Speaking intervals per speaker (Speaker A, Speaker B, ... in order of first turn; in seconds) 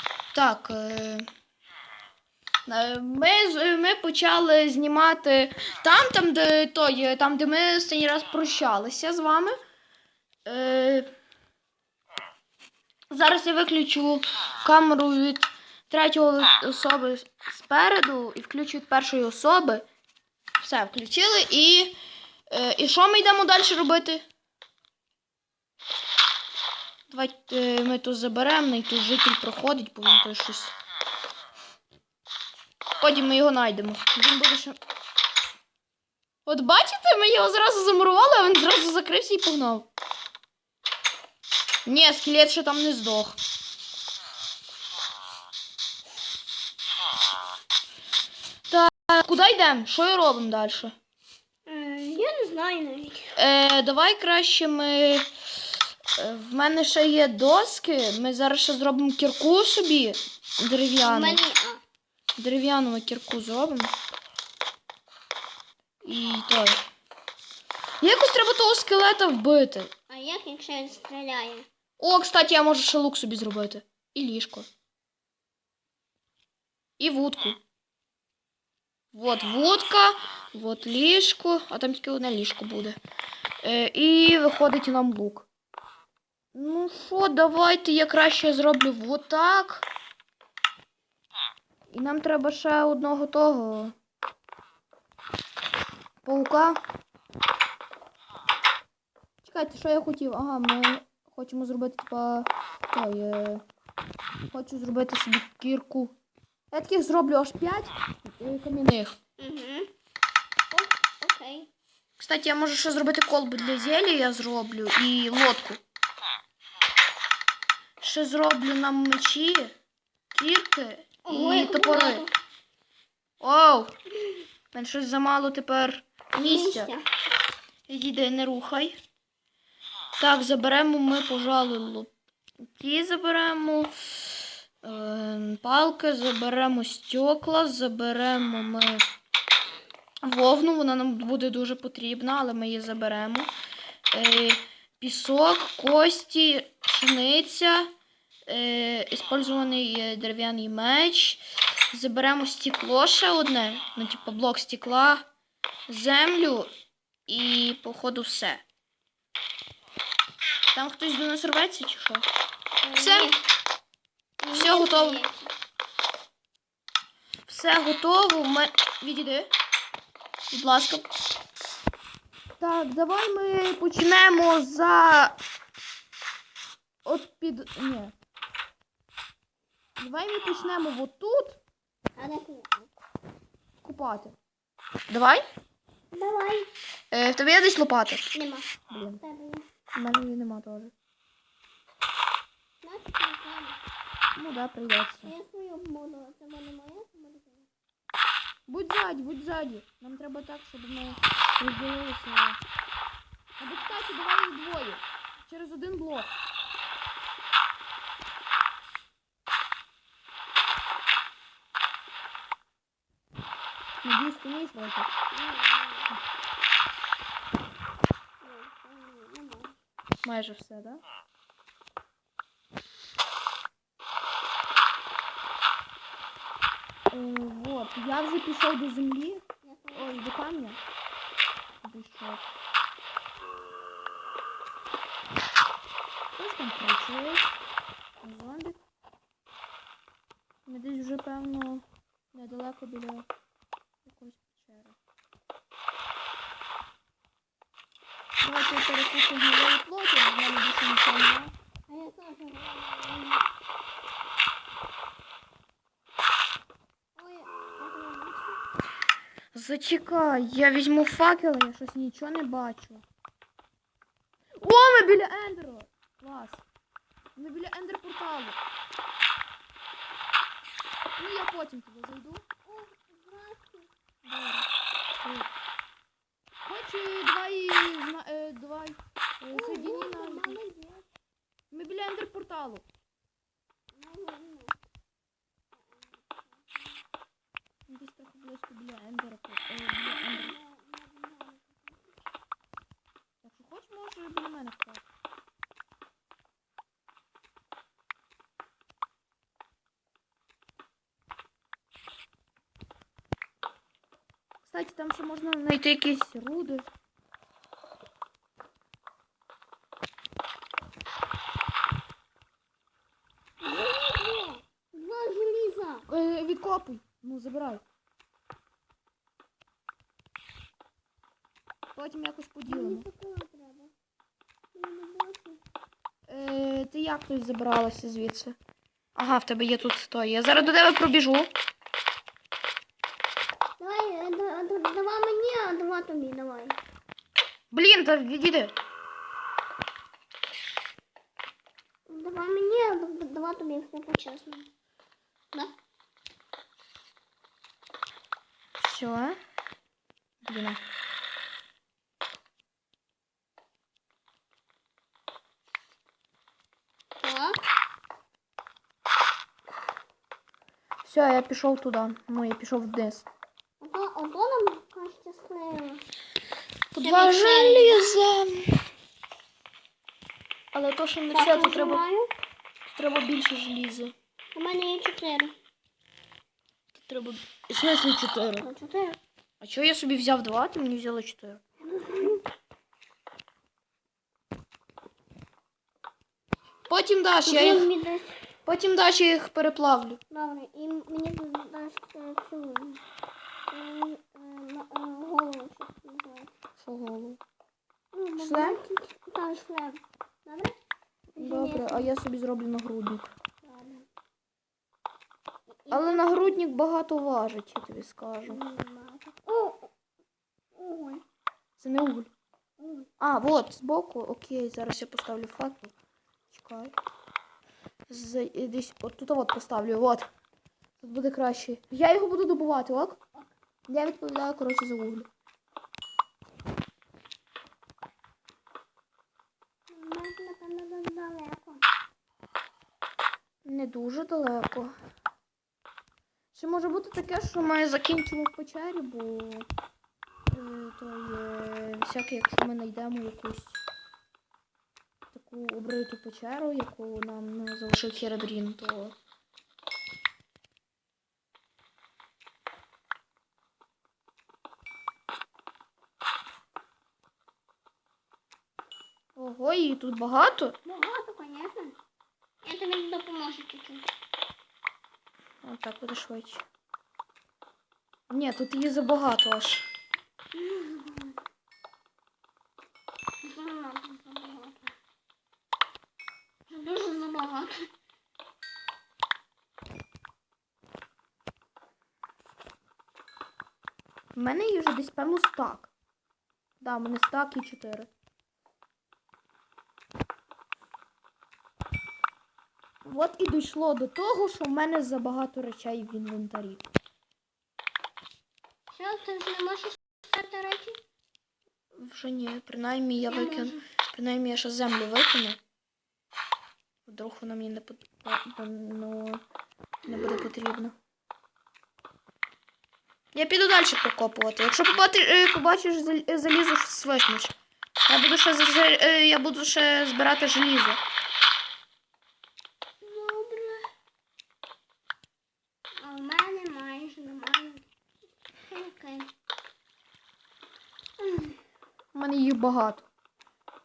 Speaker A: 0.3-1.3, 2.7-9.6, 10.5-11.1, 13.1-19.9, 20.6-21.9, 22.5-24.2, 27.1-30.7, 33.0-34.8, 36.5-39.9, 41.9-43.4, 48.7-51.0, 53.4-55.3, 56.1-61.4, 62.4-63.9, 66.0-66.8, 68.0-69.9, 72.0-74.7, 77.0-77.6, 79.1-83.0, 83.6-85.5, 86.5-89.9, 91.9-94.0, 96.2-96.8, 99.4-103.6, 104.5-106.1, 106.7-109.2, 112.2-115.8, 118.0-119.8, 120.3-122.2, 123.4-124.0, 124.7-126.9, 127.9-129.0, 130.2-132.1, 132.7-133.9, 134.8-139.0, 140.2-143.5, 144.1-147.9, 148.5-155.3, 155.9-156.7, 157.3-158.6, 160.7-162.3, 163.0-163.3, 164.5-165.2, 167.5-169.5, 170.5-171.1, 172.6-175.4, 177.1-178.1, 180.0-181.6, 183.8-184.4, 185.1-185.4, 187.1-188.3, 188.9-189.2, 189.9-190.9, 194.3-195.3, 198.7-202.6, 203.6-206.3, 214.0-215.1, 220.2-221.0, 227.1-230.8, 231.8-232.5, 236.3-237.5, 238.2-238.8, 240.7-243.3, 244.1-245.0, 248.4-251.5, 259.5-263.0, 264.6-266.6, 267.4-268.6, 271.2-272.4, 274.2-274.7, 276.7-280.6, 281.7-282.9, 287.9-290.6, 293.4-295.1, 304.6-306.9, 316.1-317.8, 321.9-323.1, 326.3-328.6, 329.2-331.5, 337.7-338.7, 348.8-349.4, 350.4-350.8, 361.0-363.3, 366.9-368.8, 370.7-372.0, 372.9-374.1, 376.9-378.7, 379.6-381.6, 386.9-387.9, 388.7-390.2, 396.8-397.4, 398.4-398.8, 401.4-403.3, 405.9-408.6, 411.8-412.3, 413.2-415.9, 416.5-416.9, 418.1-420.3, 421.0-423.2, 423.9-425.3, 433.6-434.9, 436.5-439.7, 440.5-443.8, 445.3-449.1, 459.4-460.8, 465.6-466.7, 468.3-469.9, 484.4-485.9, 486.8-488.1, 493.1-496.8, 502.0-505.6, 507.1-509.4, 510.1-510.9, 513.3-521.0, 532.1-533.1
Speaker B: 51.7-53.3, 61.0-61.8, 70.1-71.7, 109.4-109.9, 110.7-111.7, 121.2-122.3, 126.4-127.1, 162.8-163.4, 164.4-165.5, 182.2-182.9, 186.1-186.7, 188.3-189.7, 192.8-193.8, 195.2-197.7, 215.3-216.1, 218.4-219.8, 229.6-230.3, 251.9-253.5, 257.2-258.6, 272.6-273.9, 279.5-281.1, 283.9-284.8, 285.7-287.0, 290.1-292.1, 313.6-316.1, 322.7-323.9, 324.7-325.6, 333.8-336.8, 342.1-344.7, 357.2-357.6, 363.8-366.1, 367.0-368.0, 371.3-372.3, 374.5-375.5, 378.6-379.2, 381.9-382.4, 387.5-388.4, 390.3-393.0, 393.7-396.5, 398.1-400.8, 401.4-402.1, 403.6-404.1, 405.9-406.6, 408.5-409.9, 410.7-411.2, 412.8-413.1, 429.9-431.9, 460.9-462.0, 462.6-464.1, 470.5-471.4, 473.4-474.9, 476.7-477.9, 498.9-501.0, 503.2-503.8, 510.1-510.4, 523.0-523.9, 526.0-527.9, 528.7-529.3, 531.2-531.6